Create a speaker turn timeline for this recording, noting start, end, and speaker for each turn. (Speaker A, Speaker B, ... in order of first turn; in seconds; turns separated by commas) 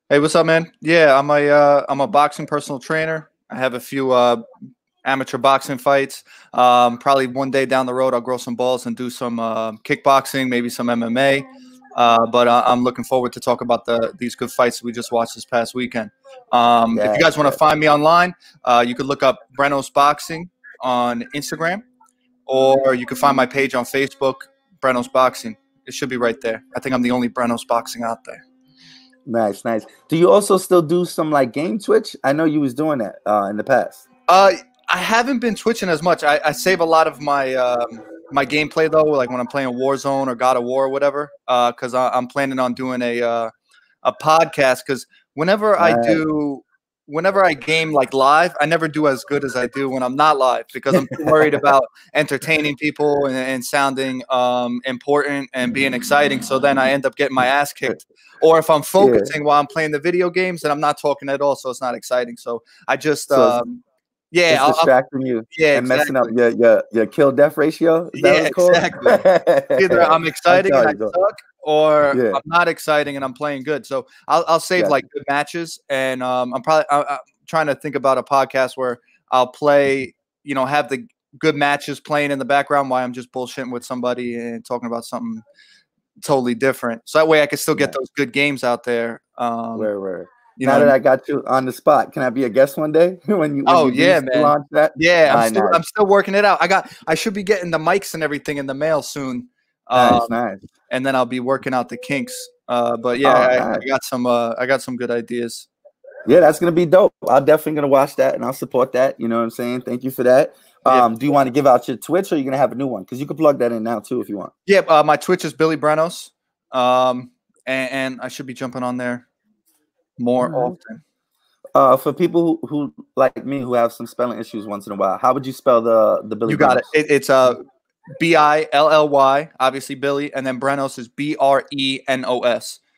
Speaker A: 0.1-4.4, Speaker A: 5.0-21.8, Speaker B: 16.9-17.6, Speaker A: 22.5-28.4, Speaker B: 29.2-34.0, Speaker A: 34.3-43.5, Speaker A: 44.0-64.9, Speaker B: 45.8-46.2, Speaker B: 59.0-59.3, Speaker B: 63.3-63.6, Speaker B: 64.5-71.1, Speaker A: 65.5-66.3, Speaker A: 68.1-69.2, Speaker A: 69.8-85.4, Speaker B: 72.1-72.4, Speaker A: 86.2-89.9, Speaker B: 89.7-95.8, Speaker A: 90.6-90.9, Speaker A: 93.7-100.4, Speaker B: 99.9-100.6, Speaker A: 100.9-105.7, Speaker B: 103.2-103.8, Speaker B: 106.2-114.5, Speaker A: 114.7-119.3, Speaker A: 120.2-121.0, Speaker B: 120.4-120.7, Speaker B: 121.8-126.9, Speaker A: 126.5-127.6, Speaker A: 128.2-132.8